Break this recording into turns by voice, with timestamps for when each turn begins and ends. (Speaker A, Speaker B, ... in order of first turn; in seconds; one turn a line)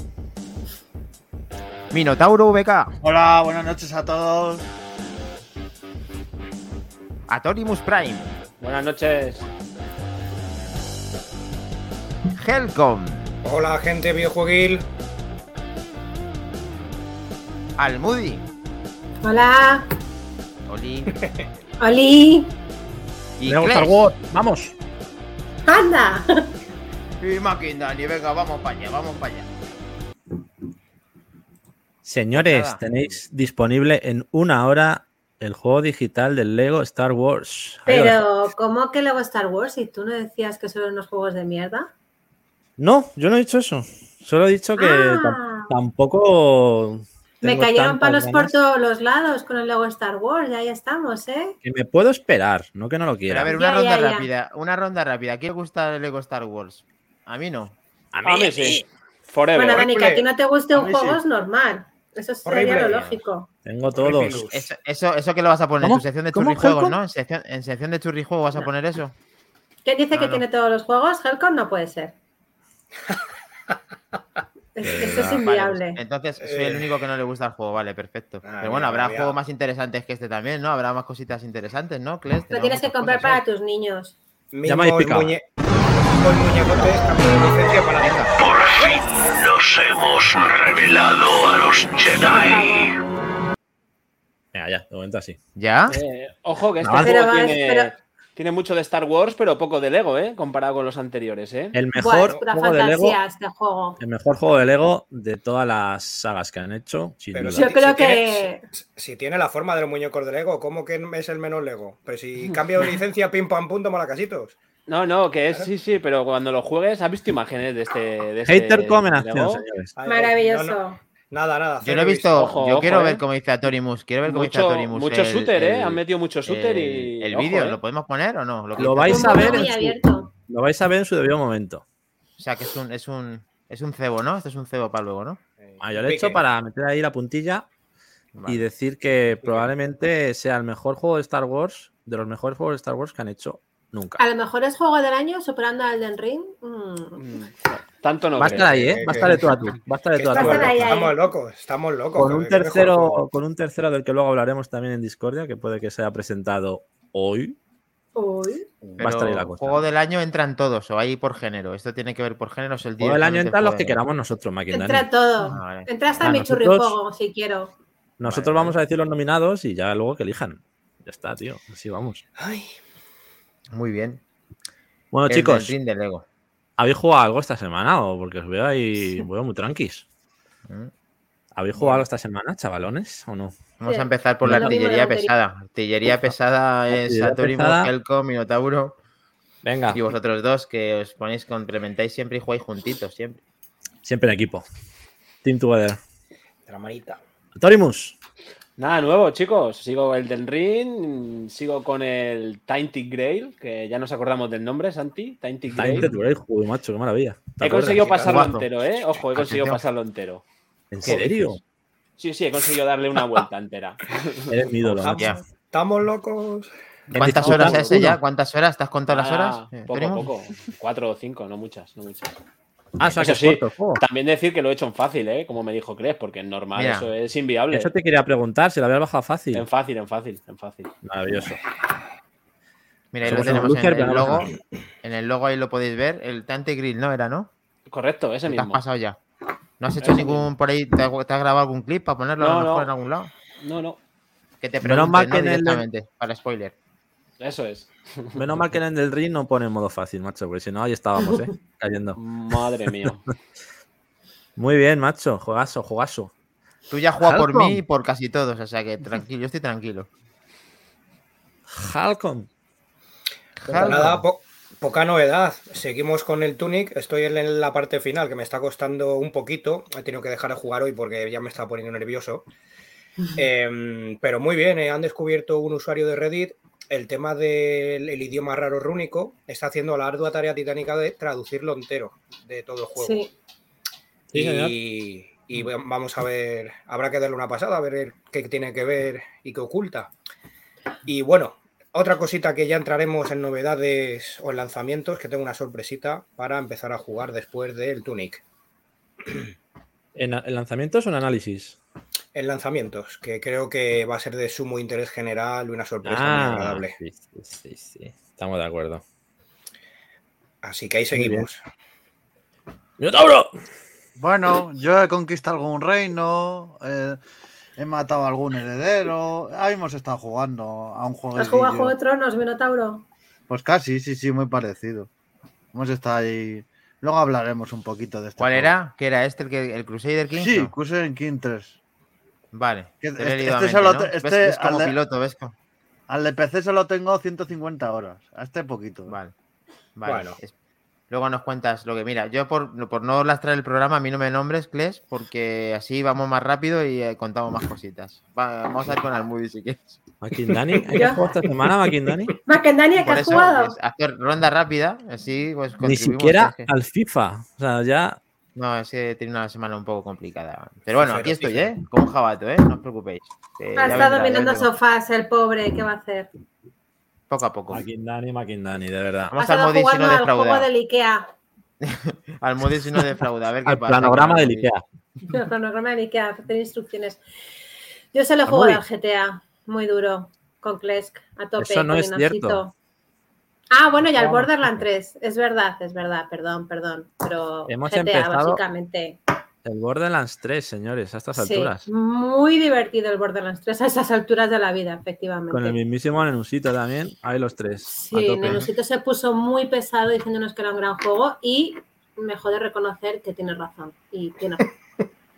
Speaker A: 1.9-2.9
Speaker B: 3.0-4.6
Speaker A: 7.3-8.3
Speaker C: 8.6-9.4
Speaker A: 12.3-13.3
Speaker D: 13.4-14.8
Speaker A: 17.8-18.4
Speaker E: 19.2-19.9
Speaker A: 20.7-21.1
Speaker E: 21.8-22.5
Speaker A: 23.4-24.0
Speaker F: 23.4-24.7
Speaker E: 25.6-26.5
Speaker A: 27.2-29.5
Speaker F: 32.0-38.3
Speaker A: 32.3-32.8
Speaker E: 37.9-41.9
Speaker F: 42.8-48.5
Speaker E: 44.8-45.7
Speaker E: 47.4-51.5
Speaker F: 51.6-53.5
Speaker A: 53.3-57.7
Speaker E: 53.5-54.3
Speaker F: 58.1-58.8
Speaker C: 58.2-59.9
Speaker E: 59.5-63.5
Speaker D: 59.7-60.3
Speaker B: 60.7-61.2
Speaker D: 62.4-63.2
Speaker F: 63.6-64.4
Speaker D: 63.9-64.7
Speaker A: 64.5-69.1
Speaker F: 65.8-67.0
Speaker E: 69.8-72.1
Speaker A: 70.1-70.4
Speaker E: 74.7-76.0
Speaker F: 74.8-75.4
Speaker A: 75.1-83.4
Speaker D: 76.4-76.9
Speaker D: 78.4-79.4
Speaker E: 82.5-84.1
Speaker D: 84.5-88.3
Speaker F: 84.7-85.3
Speaker A: 88.0-88.3
Speaker G: 88.4-93.0
Speaker E: 92.3-92.8
Speaker F: 94.5-95.4
Speaker A: 95.5-96.0
Speaker C: 95.9-101.8
Speaker F: 96.8-97.2
Speaker E: 97.0-97.9
Speaker F: 101.7-103.2
Speaker E: 102.0-104.0
Speaker F: 104.0-107.7
Speaker D: 107.3-114.6
Speaker E: 107.5-108.6
Speaker C: 112.4-112.9
Speaker C: 114.9-119.6
Speaker F: 118.5-119.9
Speaker D: 120.0-122.5
Speaker E: 120.0-121.0
Speaker A: 121.8-129.7
Speaker C: 122.3-123.2
Speaker C: 124.2-127.8
Speaker F: 128.8-131.8
Speaker E: 129.1-130.3
Speaker A: 132.4-135.4
Speaker D: 135.6-136.4
Speaker F: 135.8-137.7
Speaker A: 138.3-138.6
Speaker F: 138.4-144.2
Speaker A: 139.4-139.7
Speaker E: 144.2-147.2
Speaker C: 147.2-149.4
Speaker F: 148.4-150.9
Speaker D: 148.9-149.3
Speaker D: 150.2-153.2
Speaker E: 150.3-151.2
Speaker F: 152.2-157.6
Speaker E: 158.2-158.7
Speaker A: 158.9-164.0
Speaker F: 159.0-159.8
Speaker F: 163.0-165.1
Speaker E: 164.7-167.7
Speaker A: 165.4-165.9
Speaker F: 166.2-166.9
Speaker F: 168.2-172.2
Speaker A: 168.2-168.8
Speaker D: 172.4-172.7
Speaker A: 173.7-174.2
Speaker F: 175.1-175.7
Speaker A: 175.3-176.2
Speaker F: 176.8-180.0
Speaker F: 181.6-183.5
Speaker A: 183.8-188.9
Speaker E: 183.8-185.3
Speaker F: 184.4-184.7
Speaker F: 186.9-187.9
Speaker F: 189.6-190.0
Speaker A: 189.9-193.4
Speaker F: 194.0-194.6
Speaker F: 195.4-196.0
Speaker D: 196.7-197.2
Speaker F: 197.6-198.2
Speaker C: 198.8-206.1
Speaker F: 205.7-208.1
Speaker C: 207.6-210.4
Speaker D: 207.9-208.3
Speaker A: 208.1-209.8
Speaker F: 210.9-211.6
Speaker A: 211.0-211.6
Speaker C: 212.2-214.6
Speaker F: 214.5-215.3
Speaker D: 215.0-216.7
Speaker A: 215.0-215.4
Speaker A: 217.1-220.3
Speaker F: 217.1-218.2
Speaker C: 217.5-217.9
Speaker C: 219.1-222.3
Speaker F: 223.0-224.0
Speaker C: 223.2-227.9
Speaker A: 226.7-227.1
Speaker F: 227.7-229.6
Speaker C: 229.5-230.9
Speaker F: 231.0-231.6
Speaker A: 233.1-237.5
Speaker F: 233.2-234.5
Speaker C: 237.9-238.8
Speaker A: 238.5-239.2
Speaker A: 239.8-243.3
Speaker C: 240.0-240.5
Speaker C: 242.4-242.9
Speaker C: 243.6-244.0
Speaker A: 244.6-246.7
Speaker F: 244.8-245.8
Speaker C: 247.4-248.4
Speaker F: 248.3-252.2
Speaker C: 252.2-253.2
Speaker F: 254.6-256.3
Speaker A: 256.9-260.1
Speaker F: 257.2-257.8
Speaker F: 261.7-262.5
Speaker A: 263.6-264.2
Speaker F: 263.7-264.2
Speaker D: 263.8-272.4
Speaker D: 273.4-283.2
Speaker E: 283.0-283.3
Speaker F: 284.3-284.7
Speaker D: 284.3-290.1
Speaker D: 291.1-298.4
Speaker F: 300.1-301.8
Speaker D: 302.3-306.9
Speaker F: 306.0-309.0
Speaker D: 310.6-311.6
Speaker F: 311.1-311.5
Speaker F: 313.0-313.5
Speaker B: 314.2-317.2
Speaker B: 317.8-321.9
Speaker E: 321.3-323.0
Speaker B: 323.5-325.1
Speaker B: 325.7-328.8
Speaker A: 328.4-330.7
Speaker B: 330.4-331.8
Speaker A: 332.5-335.5
Speaker B: 333.0-335.0
Speaker B: 336.1-339.1
Speaker A: 339.1-339.3
Speaker A: 340.0-340.5
Speaker D: 340.0-340.4
Speaker A: 341.1-350.0
Speaker F: 350.2-352.3
Speaker E: 350.9-351.2
Speaker E: 352.4-353.8
Speaker A: 352.9-356.7
Speaker F: 355.8-358.2
Speaker A: 358.6-364.7
Speaker D: 360.9-361.7
Speaker E: 363.7-366.3
Speaker A: 367.3-367.8
Speaker F: 367.7-369.3
Speaker A: 369.3-370.7
Speaker E: 369.4-371.3
Speaker A: 371.8-374.7
Speaker F: 373.6-374.8
Speaker E: 375.3-377.2
Speaker E: 378.1-382.7
Speaker F: 378.5-378.8
Speaker F: 381.6-382.6
Speaker E: 383.7-389.2
Speaker F: 384.1-384.8
Speaker F: 387.7-388.6
Speaker F: 389.6-391.8
Speaker E: 391.4-395.8
Speaker F: 395.5-398.7
Speaker E: 397.9-404.7